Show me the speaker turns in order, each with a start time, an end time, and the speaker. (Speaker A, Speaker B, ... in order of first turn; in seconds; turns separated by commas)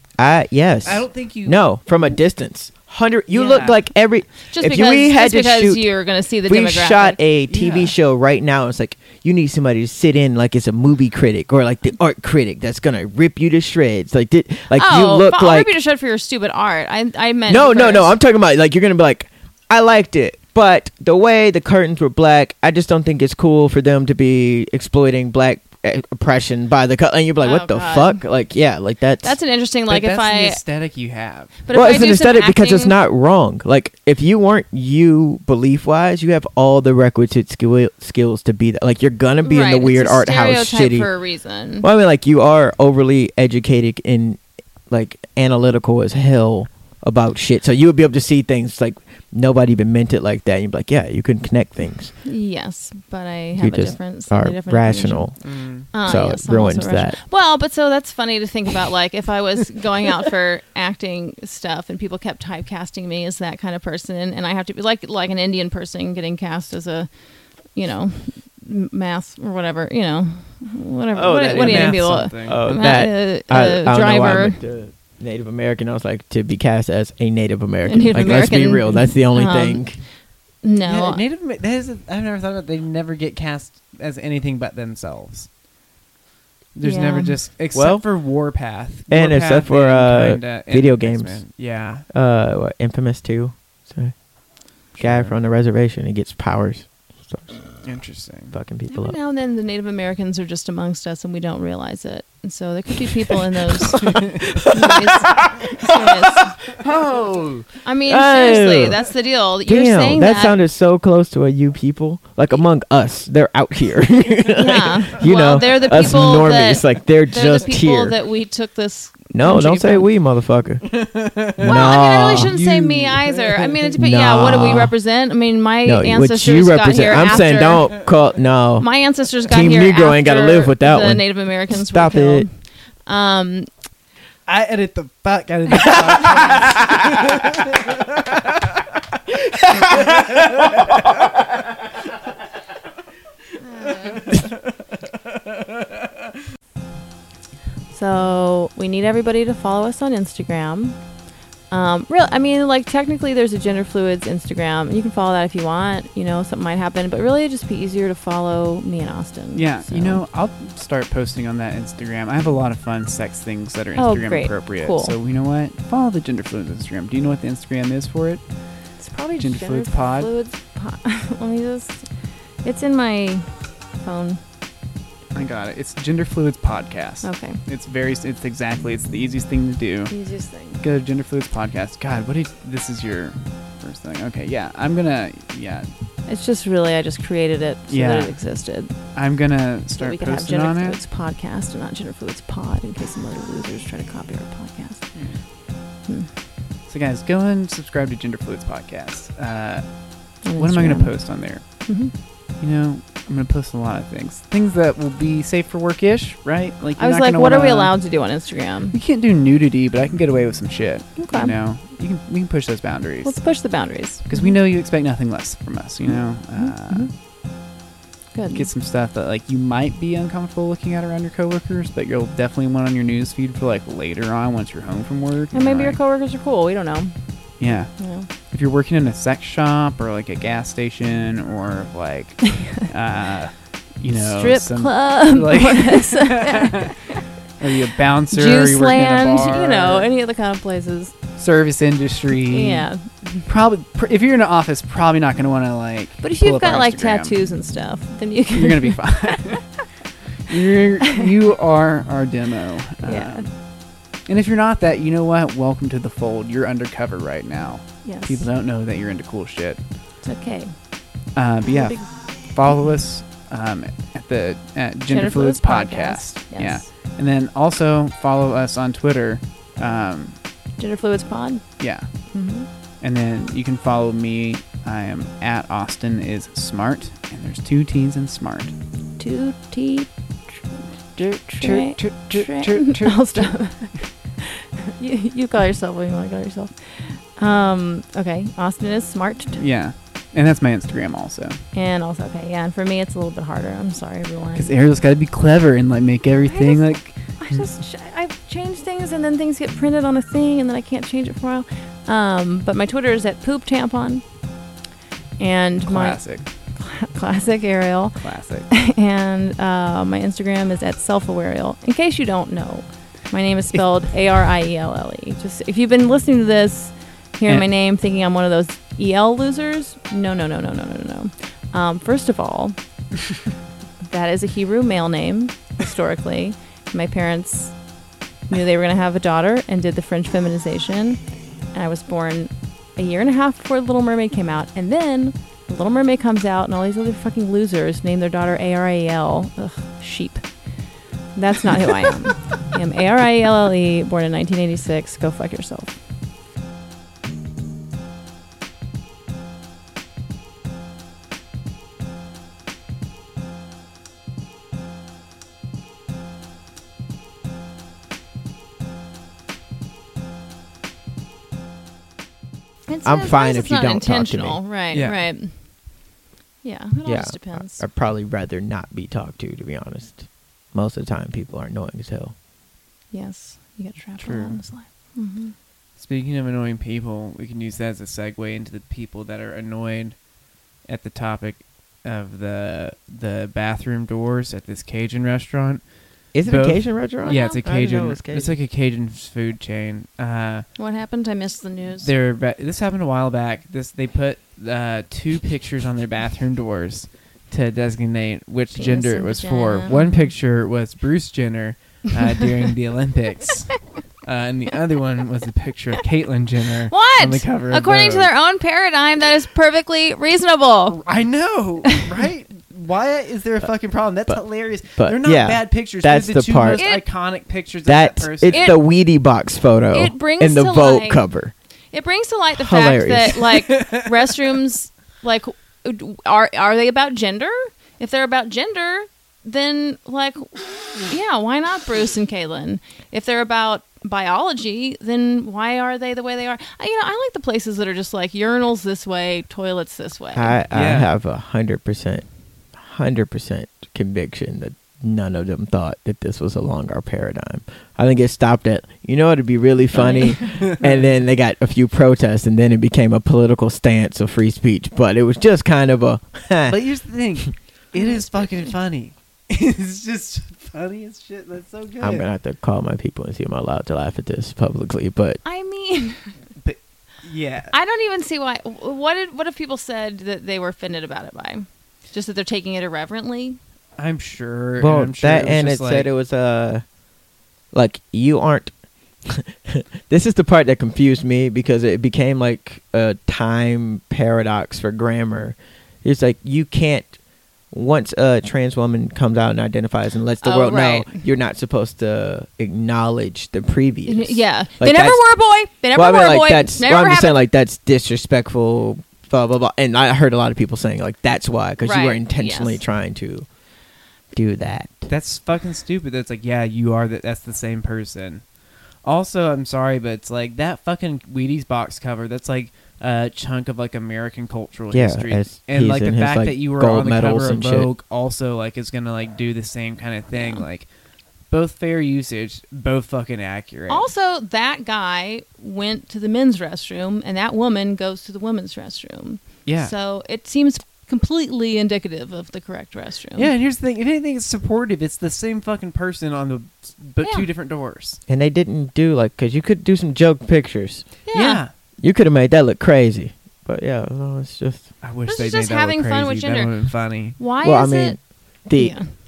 Speaker A: 0.2-5.9, Speaker B: 0.8-2.2, Speaker C: 3.4-3.7, Speaker B: 3.4-3.7, Speaker C: 4.5-7.2, Speaker A: 6.4-15.7, Speaker B: 7.5-7.9, Speaker C: 14.7-18.1, Speaker A: 17.5-29.4, Speaker C: 27.4-28.2, Speaker C: 29.2-30.6, Speaker B: 29.9-31.6, Speaker C: 31.6-32.9, Speaker A: 31.7-41.1, Speaker C: 39.4-41.9, Speaker A: 41.8-52.1, Speaker C: 52.2-67.1, Speaker A: 53.6-57.2, Speaker B: 55.4-55.9, Speaker C: 67.7-74.6, Speaker A: 71.1-80.0, Speaker B: 71.5-72.7, Speaker C: 77.9-80.1, Speaker C: 80.6-81.2, Speaker B: 80.9-85.5, Speaker B: 86.8-92.0, Speaker C: 86.8-87.4, Speaker A: 87.7-88.1, Speaker A: 89.1-91.5, Speaker A: 92.1-94.3, Speaker A: 94.8-97.7, Speaker B: 94.9-95.4, Speaker B: 97.8-98.5, Speaker A: 98.5-99.2, Speaker C: 98.9-106.6, Speaker A: 103.8-109.0, Speaker C: 107.8-110.6, Speaker A: 109.7-118.1, Speaker C: 114.5-120.1, Speaker A: 119.3-121.0, Speaker B: 121.0-123.9, Speaker A: 121.6-122.5, Speaker C: 121.6-127.9, Speaker A: 124.0-124.9, Speaker A: 125.8-128.9, Speaker C: 128.8-132.5, Speaker A: 129.4-132.5, Speaker C: 133.0-133.7, Speaker B: 134.5-138.4, Speaker C: 136.2-136.6, Speaker B: 139.6-141.0, Speaker A: 139.9-140.2, Speaker A: 140.8-141.1, Speaker C: 143.6-144.2, Speaker C: 147.9-151.0, Speaker C: 151.7-160.2, Speaker B: 159.5-170.3, Speaker C: 163.9-165.2, Speaker C: 169.0-172.1, Speaker C: 172.6-174.4, Speaker B: 175.3-180.2, Speaker C: 177.2-177.6, Speaker C: 180.1-180.8, Speaker B: 180.8-185.9, Speaker C: 186.2-189.1, Speaker B: 187.9-191.0, Speaker C: 190.0-195.1, Speaker B: 195.1-195.4, Speaker C: 196.0-196.3, Speaker B: 196.9-208.3, Speaker C: 200.4-202.1, Speaker C: 207.0-208.9, Speaker B: 208.9-217.1, Speaker C: 211.2-211.6, Speaker C: 213.2-214.6, Speaker C: 216.1-217.1, Speaker C: 218.3-218.7, Speaker B: 218.5-226.0, Speaker C: 225.5-227.2, Speaker B: 227.6-240.1, Speaker C: 227.9-228.3, Speaker C: 234.1-237.2, Speaker C: 238.3-241.2, Speaker B: 241.4-247.6, Speaker C: 242.5-243.4, Speaker C: 246.2-249.4, Speaker B: 248.5-249.9, Speaker B: 250.5-259.9, Speaker C: 253.0-253.5, Speaker C: 258.0-258.5, Speaker C: 260.2-260.8, Speaker B: 261.3-270.4, Speaker C: 261.6-262.3, Speaker C: 265.1-266.9, Speaker C: 270.8-272.7, Speaker B: 271.8-272.5, Speaker B: 273.0-278.7, Speaker C: 279.2-280.6, Speaker C: 281.1-289.6, Speaker B: 281.4-283.8, Speaker B: 289.6-291.6, Speaker C: 291.7-294.7, Speaker B: 294.6-297.6, Speaker C: 296.5-304.2, Speaker C: 305.4-322.8, Speaker B: 305.9-306.5, Speaker B: 308.2-308.7, Speaker C: 324.0-327.8, Speaker C: 328.5-340.7, Speaker C: 341.3-346.0, Speaker C: 362.9-365.6, Speaker A: 363.1-364.6, Speaker B: 364.9-365.2, Speaker C: 366.6-367.8, Speaker A: 367.1-372.3, Speaker C: 373.1-375.5, Speaker B: 374.2-374.6, Speaker B: 376.0-380.2, Speaker B: 380.9-385.9, Speaker A: 386.3-388.6, Speaker B: 386.4-390.7, Speaker C: 387.2-387.7, Speaker C: 390.8-392.1, Speaker B: 392.0-408.3, Speaker C: 398.7-400.3, Speaker C: 406.9-411.0, Speaker B: 410.9-418.7, Speaker A: 414.9-416.8, Speaker C: 416.7-417.0, Speaker A: 417.9-421.5, Speaker C: 418.5-418.8, Speaker C: 419.9-421.2, Speaker C: 421.9-440.6, Speaker A: 422.6-423.4, Speaker B: 423.7-424.1, Speaker A: 440.3-456.8, Speaker B: 440.7-441.1, Speaker C: 449.9-450.4, Speaker B: 450.6-451.0, Speaker B: 456.7-462.3, Speaker C: 457.9-458.7, Speaker A: 462.0-465.4, Speaker C: 465.4-466.4, Speaker B: 466.6-467.7, Speaker C: 467.7-473.6, Speaker B: 474.0-476.1, Speaker A: 474.8-476.8, Speaker A: 477.7-478.7, Speaker A: 479.2-487.1, Speaker A: 487.7-495.2, Speaker C: 490.4-491.2, Speaker C: 494.1-497.4, Speaker A: 495.9-503.5, Speaker C: 501.8-502.8, Speaker A: 504.3-505.1, Speaker B: 505.1-508.4, Speaker B: 509.0-520.9, Speaker A: 514.9-517.9, Speaker C: 520.3-520.6, Speaker B: 521.5-524.1, Speaker C: 523.9-533.5, Speaker B: 529.6-529.9, Speaker B: 533.4-538.2, Speaker C: 537.2-537.5, Speaker A: 538.3-541.1, Speaker C: 541.3-541.6, Speaker B: 541.3-541.7, Speaker A: 542.0-544.9, Speaker B: 545.0-547.4, Speaker C: 545.3-546.7, Speaker C: 547.3-548.2, Speaker A: 547.6-548.9, Speaker C: 548.7-549.1